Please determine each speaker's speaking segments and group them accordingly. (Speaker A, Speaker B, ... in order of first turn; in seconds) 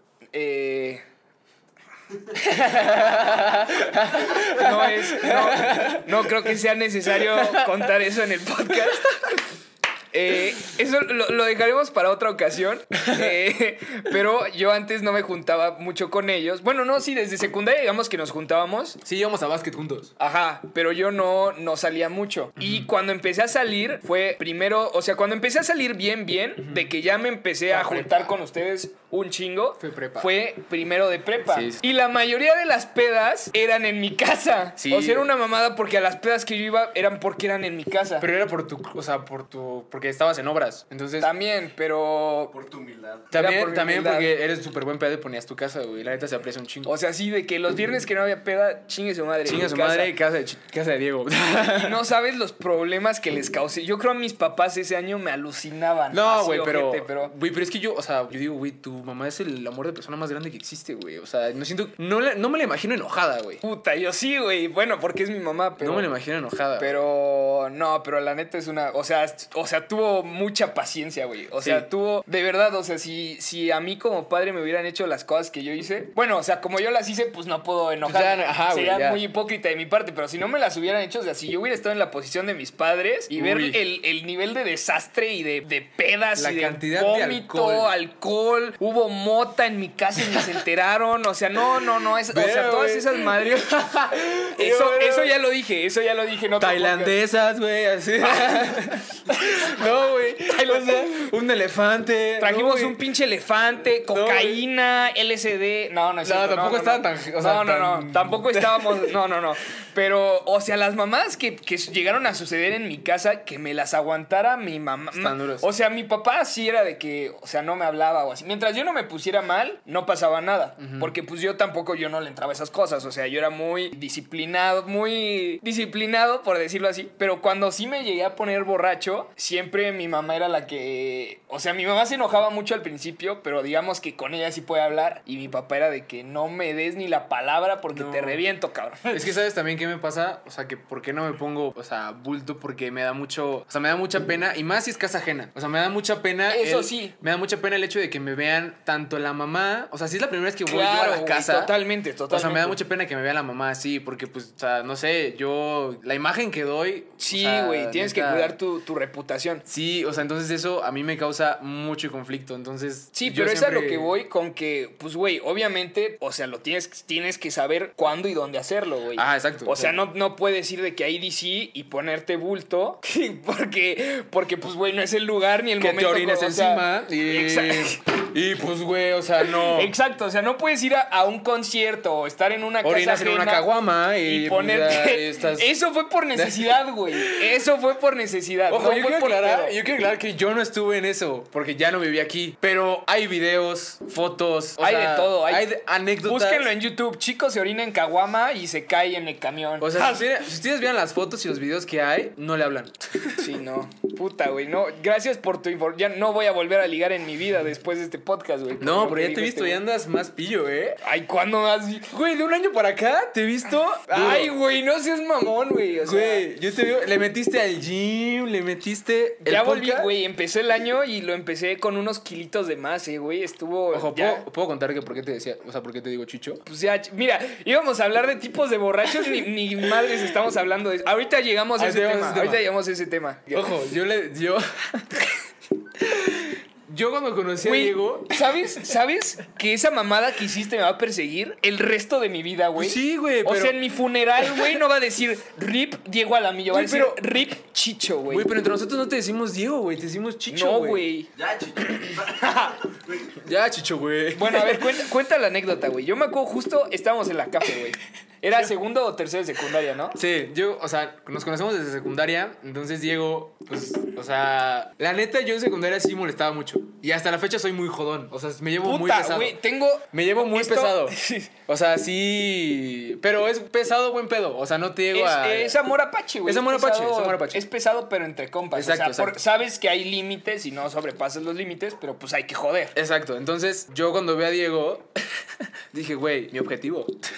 Speaker A: 0.3-1.0, 3.9-9.4, 10.1-19.0, 20.2-38.3, 41.2-42.5, 43.3-44.3, 46.9-50.1, 51.6-57.3, 63.6-66.1, 66.8-93.7, 94.5-97.2, 98.2-101.3, 102.4-139.2, 146.5-147.2, 150.7-152.8, 157.2-159.6, 163.2-178.0, 179.5-183.7, 184.2-189.8, 194.8-195.7, 196.2-200.3, 203.4-209.8, 211.0-212.1, 214.1-216.4, 219.4-224.4, 226.7-233.7, 237.6-248.5, 250.5-251.3, 252.3-252.7, 254.3-260.2, 268.8-271.5, 275.1-282.9
Speaker B: 2.3-6.5, 7.3-7.7, 13.0-13.2, 19.0-20.1, 22.6-22.9, 27.7-28.3, 29.8-30.3, 31.5-31.8, 34.8-35.3, 38.2-41.3, 43.3-46.9, 49.5-52.0, 56.1-63.6, 65.8-66.9, 78.0-79.2, 83.3-83.8, 86.4-87.9, 92.3-95.3, 96.6-103.0, 104.0-104.6, 106.2-109.1, 115.1-115.7, 120.8-121.1, 137.9-138.4, 139.1-151.7, 152.3-158.5, 159.7-164.1, 169.2-169.9, 175.8-179.9, 182.8-185.7, 186.3-187.5, 188.7-196.7, 199.8-203.5, 208.8-211.0, 212.1-214.5, 216.1-220.1, 223.9-226.6, 231.8-232.6, 233.5-235.3, 236.0-238.6, 242.8-243.8, 246.7-247.2, 248.3-251.1, 253.3-255.0, 260.1-269.6, 270.1-275.8, 276.5-277.6, 278.7-279.4, 282.9-285.1, 285.9-287.2
Speaker C: 42.5-43.3, 251.4-253.3